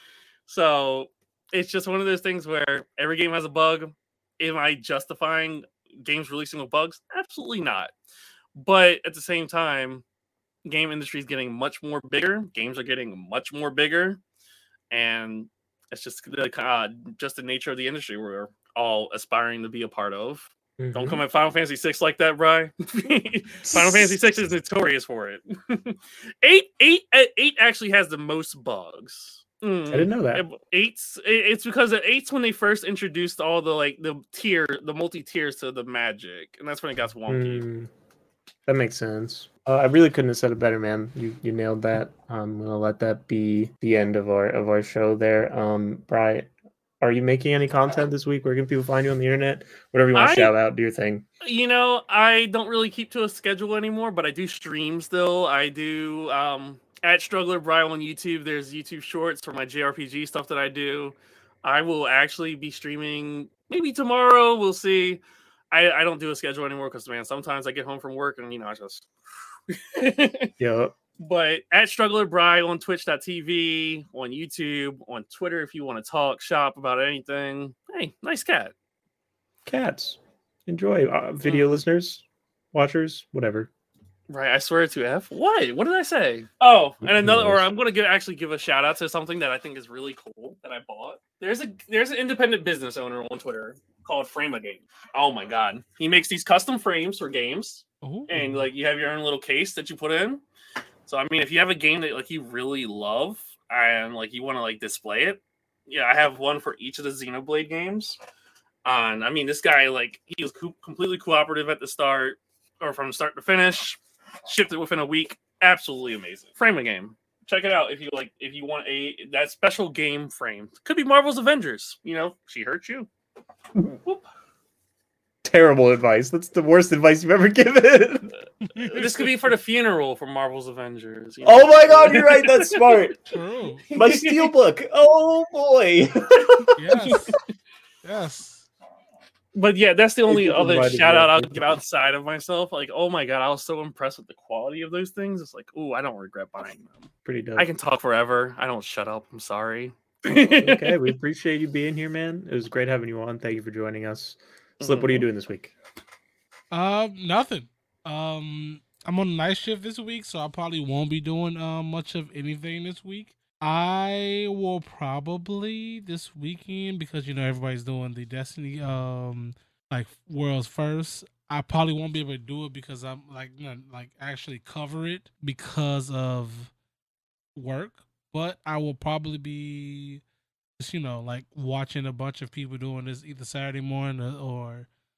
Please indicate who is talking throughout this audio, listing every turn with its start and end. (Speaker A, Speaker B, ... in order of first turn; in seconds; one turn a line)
Speaker A: 0.5-7.9
Speaker A: 8.6-10.0
Speaker A: 10.7-14.2
Speaker A: 14.9-37.7
Speaker B: 20.8-21.2
Speaker B: 23.6-24.2
Speaker B: 29.9-30.4
Speaker B: 37.3-37.9
Speaker B: 38.7-46.5
Speaker B: 47.0-51.2
Speaker A: 50.1-50.5
Speaker A: 51.4-69.1
Speaker A: 69.7-70.5
Speaker B: 70.6-71.0
Speaker A: 71.2-78.7
Speaker B: 79.7-83.7
Speaker A: 81.4-81.8
Speaker A: 84.3-100.4
Speaker B: 87.0-87.6
Speaker C: 98.0-98.6
Speaker A: 101.1-108.2
Speaker A: 108.8-123.1
Speaker A: 123.8-124.3
Speaker B: 125.4-128.3
Speaker C: 128.7-129.1
Speaker A: 128.9-133.1
Speaker B: 131.4-133.2
Speaker C: 133.3-133.9
Speaker A: 133.9-134.5
Speaker B: 133.9-137.1
Speaker A: 136.3-137.4
Speaker C: 136.8-137.3
Speaker C: 138.0-138.7
Speaker A: 139.5-151.1
Speaker B: 140.3-141.8
Speaker B: 147.2-147.7
Speaker B: 150.5-155.7
Speaker A: 154.8-155.3
Speaker C: 156.7-176.7
Speaker C: 177.6-180.2
Speaker C: 180.8-184.9